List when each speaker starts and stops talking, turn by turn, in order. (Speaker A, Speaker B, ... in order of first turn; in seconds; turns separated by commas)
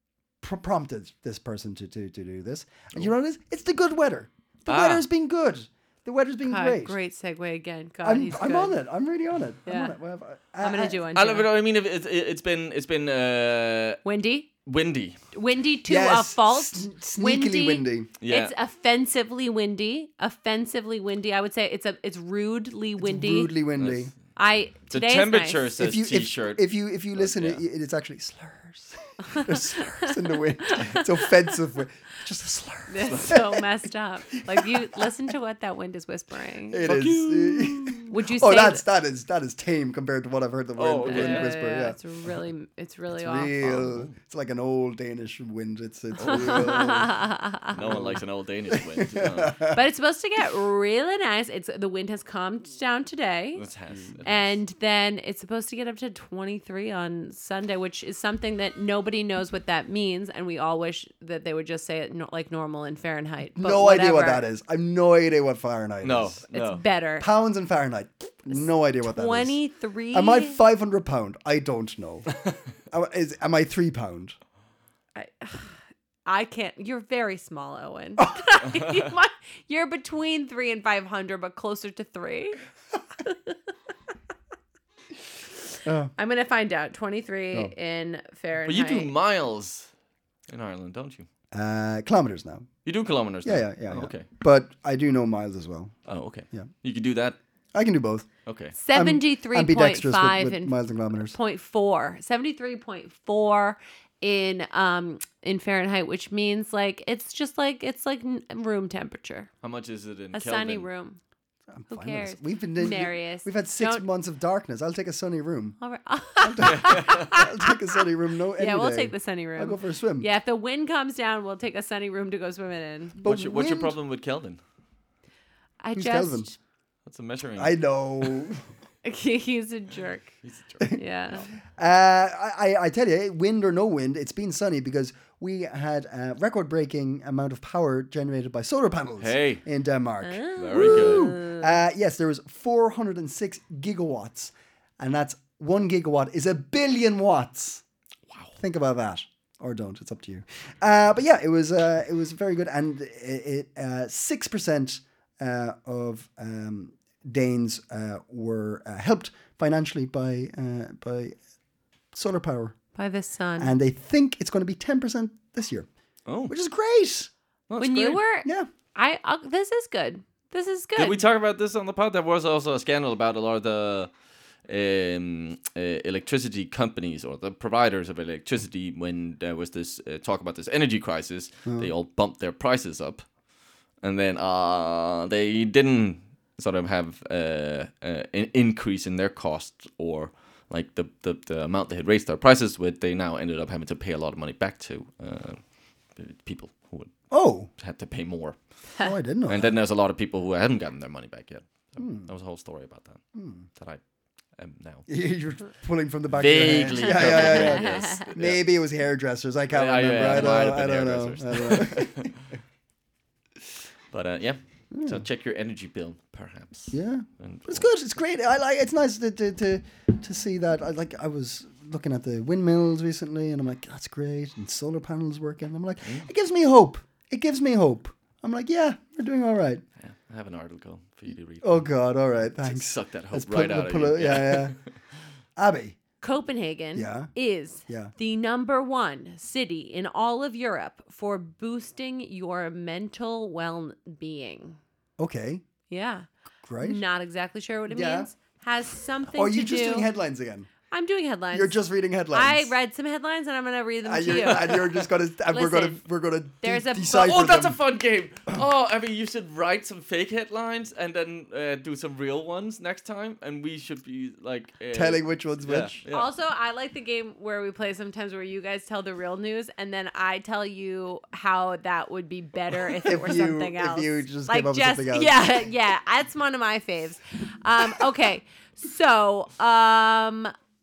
Speaker A: 0.4-7.0, Speaker B: 4.7-5.0, Speaker C: 6.5-8.8, Speaker A: 8.0-11.0, Speaker C: 9.7-9.9, Speaker C: 10.6-11.5, Speaker B: 11.1-14.0, Speaker C: 14.0-14.5, Speaker B: 14.7-15.2, Speaker C: 15.3-23.5, Speaker A: 15.8-18.1, Speaker B: 18.2-18.5, Speaker A: 23.0-24.1, Speaker B: 23.8-24.1, Speaker C: 24.4-25.7, Speaker B: 24.9-27.6, Speaker A: 25.8-33.7, Speaker C: 29.2-31.5, Speaker C: 32.9-36.9, Speaker A: 34.4-35.1, Speaker A: 36.7-42.0, Speaker B: 36.8-38.1, Speaker C: 38.1-38.8, Speaker B: 40.8-41.5, Speaker C: 41.0-43.6, Speaker A: 43.1-47.2, Speaker B: 43.6-44.1, Speaker B: 46.2-46.7, Speaker C: 46.2-48.1, Speaker B: 47.7-49.6, Speaker A: 47.8-48.2, Speaker A: 48.7-49.8, Speaker C: 49.7-53.6, Speaker B: 53.5-54.6, Speaker C: 54.2-64.4, Speaker A: 63.5-66.4, Speaker B: 66.0-66.8, Speaker C: 66.5-67.3, Speaker A: 67.2-69.6, Speaker C: 68.5-70.6, Speaker A: 70.1-72.3, Speaker A: 72.9-74.3, Speaker C: 75.1-82.6, Speaker C: 83.2-83.5, Speaker A: 85.8-86.1, Speaker C: 86.2-89.1, Speaker B: 88.6-89.9, Speaker B: 90.5-91.2, Speaker A: 91.5-92.7, Speaker B: 92.8-94.3, Speaker A: 93.4-95.9, Speaker B: 96.0-97.4, Speaker A: 97.7-98.3, Speaker B: 98.5-98.7, Speaker C: 98.8-109.5, Speaker A: 98.9-101.3, Speaker B: 109.6-110.9, Speaker C: 110.3-111.2, Speaker A: 111.7-115.8, Speaker C: 111.9-114.0, Speaker C: 115.8-118.0, Speaker A: 116.4-120.3, Speaker B: 116.6-117.3, Speaker C: 118.6-123.2, Speaker A: 123.2-123.9, Speaker B: 123.2-124.6, Speaker C: 125.8-126.5, Speaker A: 125.9-126.5, Speaker B: 127.0-128.5, Speaker A: 127.5-128.6, Speaker C: 129.0-130.3, Speaker B: 130.4-130.9, Speaker C: 130.9-131.4, Speaker A: 131.7-147.8, Speaker B: 139.2-139.6, Speaker C: 140.2-141.7, Speaker B: 140.6-141.3, Speaker B: 148.3-148.5, Speaker A: 148.6-161.4, Speaker A: 162.1-162.7, Speaker C: 162.9-163.7, Speaker A: 163.6-165.9, Speaker B: 166.2-166.5, Speaker A: 166.5-167.3, Speaker B: 167.7-168.2, Speaker C: 167.8-171.2, Speaker B: 170.9-174.1, Speaker B: 174.7-183.3, Speaker B: 184.0-197.1, Speaker A: 197.3-197.7, Speaker B: 197.8-198.6, Speaker A: 199.0-199.7, Speaker B: 199.5-203.2, Speaker A: 202.0-202.3, Speaker A: 203.3-203.7, Speaker B: 203.7-204.0, Speaker B: 204.6-205.1, Speaker A: 205.1-212.3, Speaker B: 206.3-208.6, Speaker C: 206.9-208.3, Speaker B: 209.7-212.4, Speaker B: 214.1-217.8, Speaker A: 214.9-215.2, Speaker A: 216.9-229.8, Speaker B: 230.0-231.9, Speaker A: 231.6-234.8, Speaker B: 232.6-234.9, Speaker A: 235.6-236.0, Speaker C: 236.2-244.8, Speaker A: 236.9-237.3, Speaker A: 237.9-238.1, Speaker A: 245.2-245.6, Speaker C: 245.9-246.3, Speaker A: 246.6-247.0, Speaker C: 246.8-250.1, Speaker A: 247.9-248.3, Speaker A: 249.3-250.7, Speaker C: 250.9-251.8, Speaker A: 251.5-252.7, Speaker C: 252.3-254.8, Speaker A: 254.0-257.8, Speaker B: 254.5-254.9, Speaker C: 255.5-256.0, Speaker C: 256.6-257.3, Speaker B: 257.1-266.3, Speaker A: 264.9-266.0, Speaker C: 266.1-280.5, Speaker A: 273.0-275.4